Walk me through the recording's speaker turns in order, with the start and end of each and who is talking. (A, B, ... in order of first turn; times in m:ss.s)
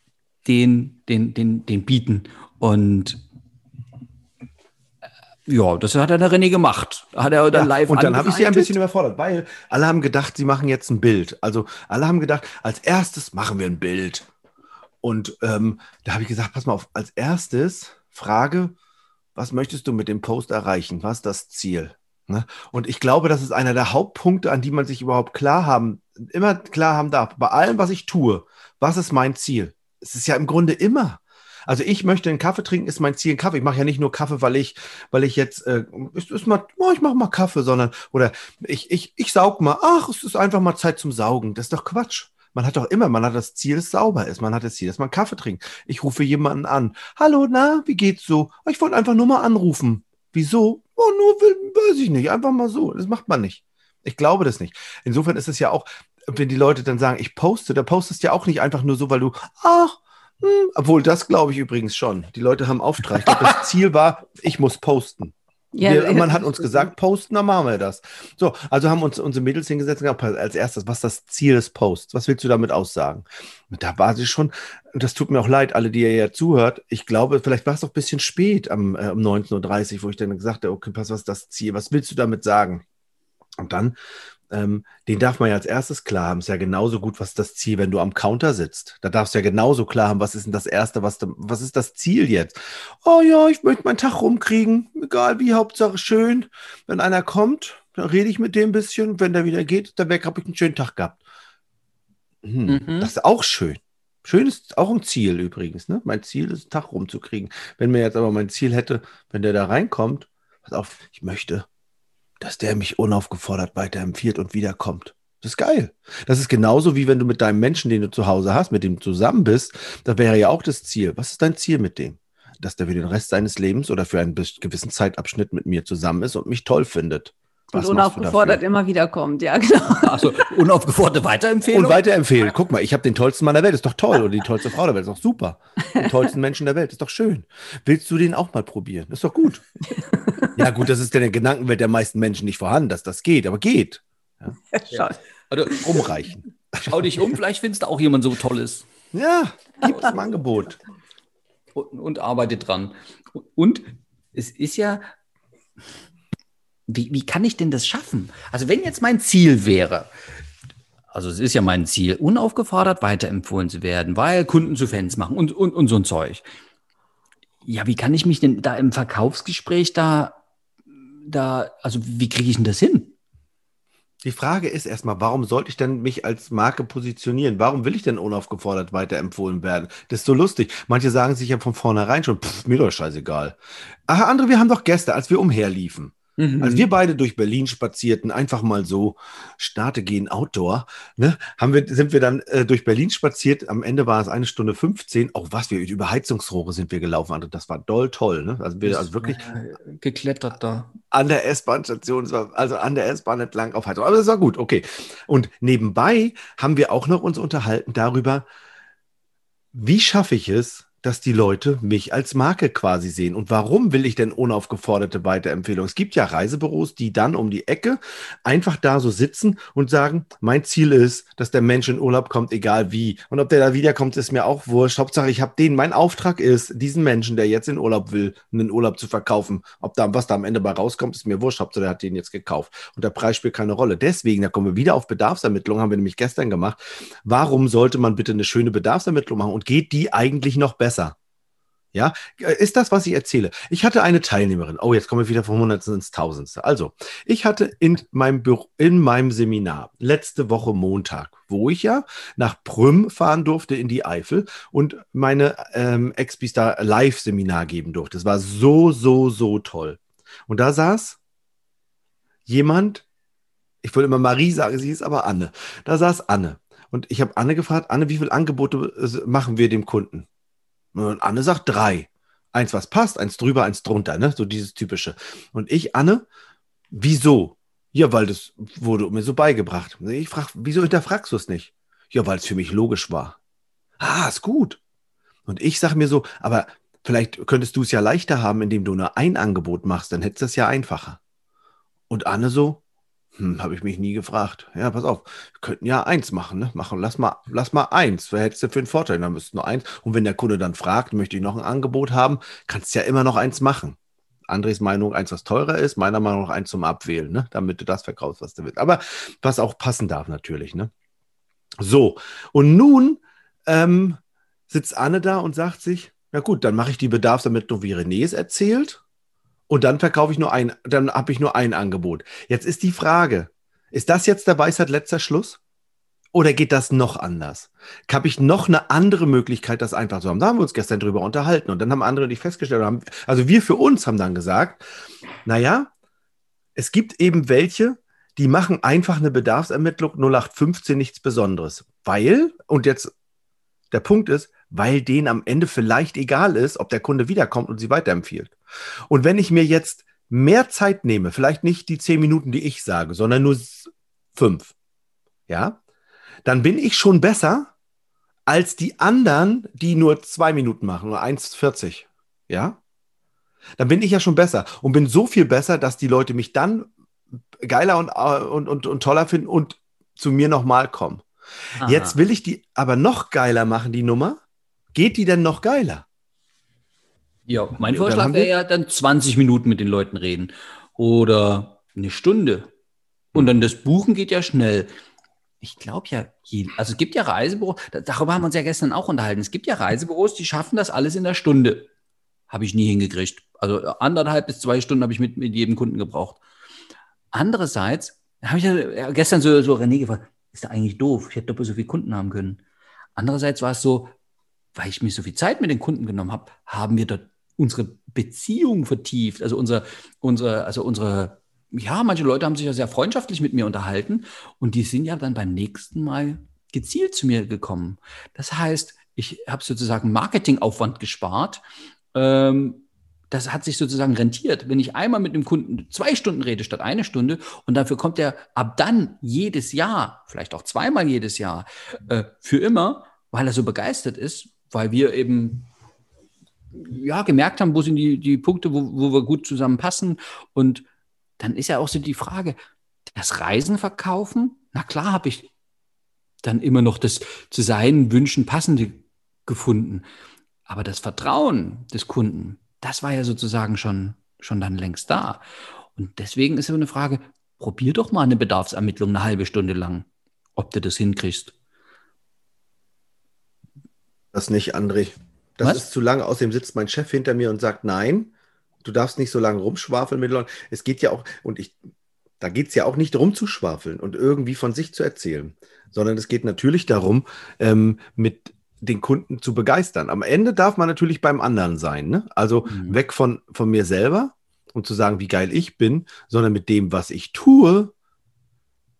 0:00.4-0:03.2 A
0:05.5-0:08.7 A
0:07.5-0:14.3 B
0:15.0-0:18.7 B
0:19.4-1:22.8 B
1:05.7-1:06.9 C
1:23.6-1:24.0 B
1:24.5-1:41.2 B
1:42.4-1:51.6 B
1:42.7-1:43.1 A
1:52.4-2:08.6 B
2:07.7-2:10.5 C
2:09.9-2:12.0 A
2:11.7-2:19.6 B
2:19.9-2:20.6 C
2:20.5-2:24.5 B
2:24.7-2:25.2 C
2:24.9-2:26.0 A
2:25.7-2:26.0 C
2:25.8-2:27.1 B
2:26.8-2:28.9 A
2:29.1-2:30.8 B
2:31.7-2:35.1 A
2:36.9-2:40.1 A
2:41.1-2:46.4 A
2:47.6-2:50.4 A
2:51.2-2:53.1 A
2:54.2-3:03.6 B
3:04.1-3:19.4 B
3:06.4-3:06.9 A
3:18.8-3:20.9 A
3:21.1-3:28.4 B
3:29.7-4:01.1 B
4:01.9-4:21.2 B
4:22.5-4:23.0 B
4:23.8-4:30.3 B
4:30.9-4:36.2 B
4:36.9-4:43.4 B
4:44.0-4:44.8 B
4:45.5-4:51.2 B
4:52.1-4:52.8 B
4:53.4-5:04.0 B
5:04.5-5:10.9 B
5:11.8-5:19.0 B
5:19.7-5:25.6 B
5:26.3-5:34.8 B
5:35.4-5:35.9 B
5:36.8-5:43.1 B
5:43.9-5:48.6 B
5:49.1-5:54.7 B
5:55.5-5:55.8 B
5:56.4-5:57.7 B
5:58.5-6:02.8 B
6:03.8-6:06.9 B
6:07.6-6:11.2 B
6:11.8-6:14.4 B
6:11.8-6:12.2 A
6:14.9-6:16.0 B
6:17.5-6:22.7 A
6:17.9-6:18.5 B
6:23.3-6:24.9 A
6:25.6-6:31.9 A
6:32.5-6:36.4 A
6:37.3-6:42.6 A
6:43.2-6:44.1 A
6:44.7-7:01.6 A
7:02.1-7:15.7 A
7:16.7-7:20.8 A
7:21.4-7:25.5 A
7:26.4-7:30.0 A
7:30.7-7:35.4 A
7:36.0-7:41.5 A
7:44.3-7:48.3 B
7:48.8-7:51.8 B
7:52.4-8:07.9 B
8:02.7-8:03.0 A